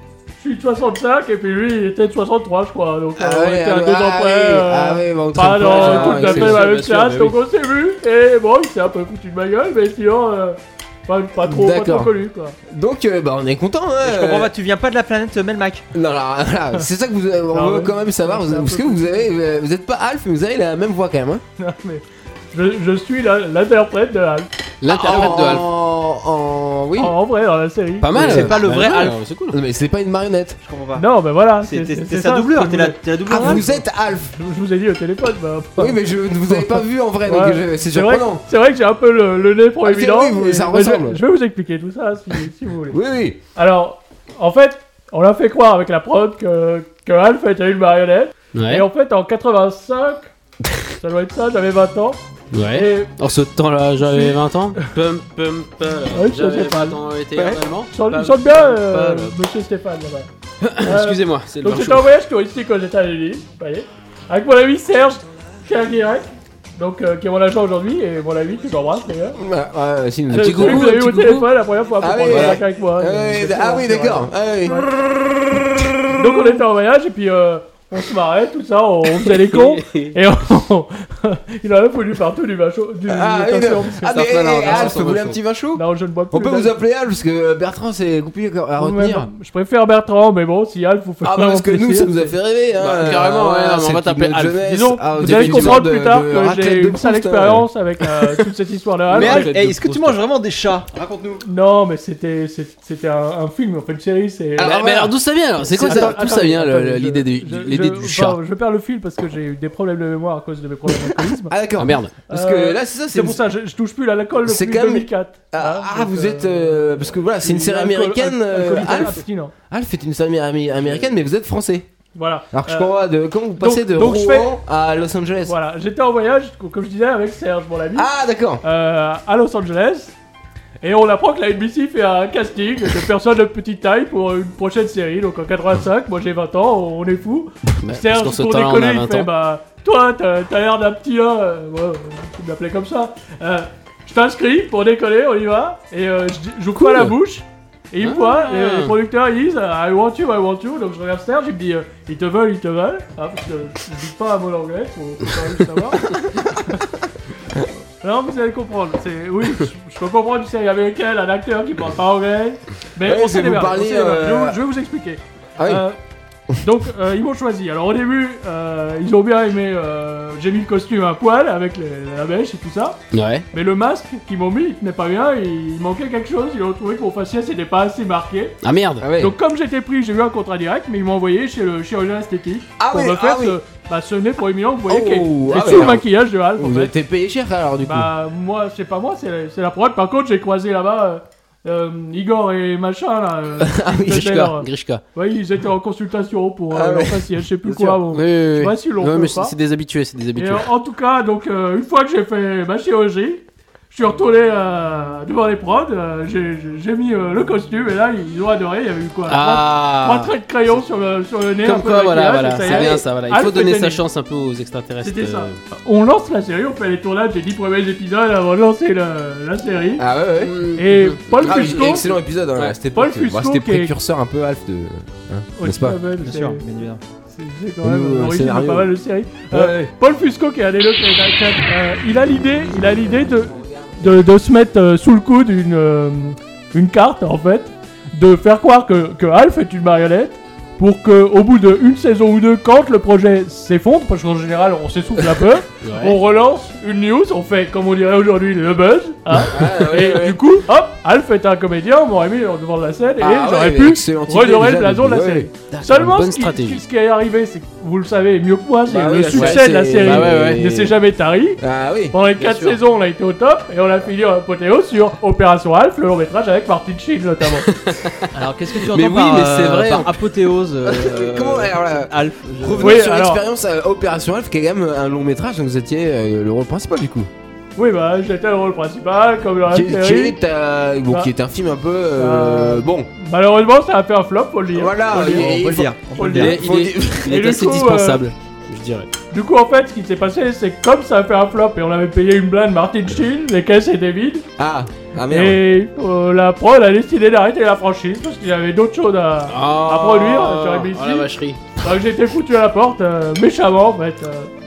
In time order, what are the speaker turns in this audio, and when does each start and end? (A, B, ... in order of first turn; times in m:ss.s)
0:00.4-0:12.6 A
0:03.2-0:06.6 B
0:05.6-0:07.4 C
0:11.4-0:12.1 B
0:12.7-0:14.5 B
0:14.0-0:15.9 D
0:15.9-0:21.4 B
0:17.5-0:19.3 A
0:21.6-0:24.5 A
0:24.8-0:25.7 C
0:24.9-0:27.1 B
0:24.9-0:25.4 D
0:27.0-0:28.5 A
0:28.0-0:29.6 C
0:28.1-0:29.2 D
0:28.2-0:28.5 B
0:29.5-0:30.6 B
0:30.6-0:31.1 D
0:31.0-0:36.0 A
0:31.6-0:33.8 D
0:33.3-0:34.3 B
0:35.8-0:38.4 B
0:36.5-0:43.0 A
0:39.8-0:41.2 B
0:42.9-0:43.4 B
0:43.6-0:50.3 A
0:48.5-0:48.9 C
0:51.0-0:53.1 A
0:52.5-0:59.4 C
0:54.0-0:54.9 A
0:56.1-0:57.0 A
0:57.4-0:57.6 D
0:57.9-1:00.3 A
1:00.6-1:02.1 C
1:00.8-1:09.4 A
1:09.4-1:10.9 B
1:10.3-1:14.9 A
1:10.3-1:11.5 C
1:12.0-1:16.5 B
1:12.3-1:12.6 C
1:16.1-1:24.9 A
1:19.5-1:20.2 C
1:23.1-1:29.3 B
1:24.0-1:25.4 C
1:25.8-1:26.7 A
1:28.8-1:32.3 A
1:31.2-1:37.7 B
1:32.8-1:35.8 C
1:34.7-1:39.5 A
1:39.1-1:40.2 B
1:39.1-1:41.4 D
1:41.4-1:44.8 A
1:44.6-1:46.2 B
1:44.6-1:48.4 C
1:45.8-1:51.5 A
1:50.9-1:53.4 B
1:51.8-1:52.1 C
1:52.3-1:59.5 A
1:54.4-2:01.9 B
2:02.2-2:02.9 A
2:02.5-2:05.6 B
2:03.6-2:04.6 A
2:05.4-2:08.1 A
2:08.0-2:08.6 B
2:08.6-2:10.2 A
2:10.8-2:36.1 A
2:17.8-2:19.3 C
2:26.8-2:27.1 C
2:28.0-2:29.0 C
2:38.0-2:46.0 A
2:43.0-2:44.6 B
2:45.6-2:45.8 B
2:46.6-2:53.0 A
2:53.1-2:53.5 C
2:53.5-2:58.6 A
2:58.6-2:59.1 C
2:59.0-2:59.4 B
2:59.2-3:06.9 A
3:02.8-3:03.6 B
3:04.9-3:08.1 B
3:07.8-3:19.5 A
3:13.6-3:14.3 B
3:14.1-3:15.0 C
3:16.7-3:18.0 B
3:18.1-3:20.7 C
3:20.4-3:34.0 A
3:29.3-3:30.3 C
3:31.6-3:35.6 C
3:32.6-3:33.0 B
3:35.0-3:40.0 A
3:40.0-3:40.6 B
3:40.4-3:42.0 C
3:40.8-3:42.1 A
3:41.4-3:46.0 B
3:42.9-3:43.9 A
3:45.6-3:46.6 A
3:46.2-3:47.0 D
3:47.3-4:21.6 A
3:47.8-3:48.9 B
3:49.5-3:49.9 B
4:05.8-4:06.2 C
4:09.4-4:10.4 B
4:13.2-4:15.5 B
4:15.7-4:16.8 C
4:18.9-4:21.0 B
4:19.3-4:20.6 C
4:21.6-4:22.2 B
4:22.1-4:27.7 A
4:22.4-4:22.8 C
4:27.7-4:30.2 C
4:28.3-4:33.0 D
4:30.8-4:37.3 B
4:32.8-4:33.4 A
4:37.8-4:40.4 A
4:39.6-4:43.1 B
4:42.2-4:45.5 A
4:44.7-4:46.0 B
4:45.1-4:46.6 D
4:46.2-4:46.6 A
4:46.2-4:49.1 C
4:46.5-4:47.4 B
4:47.2-4:48.2 A
4:49.3-4:54.5 A
4:54.6-4:55.6 B
4:55.3-5:04.5 A
4:59.5-5:01.6 C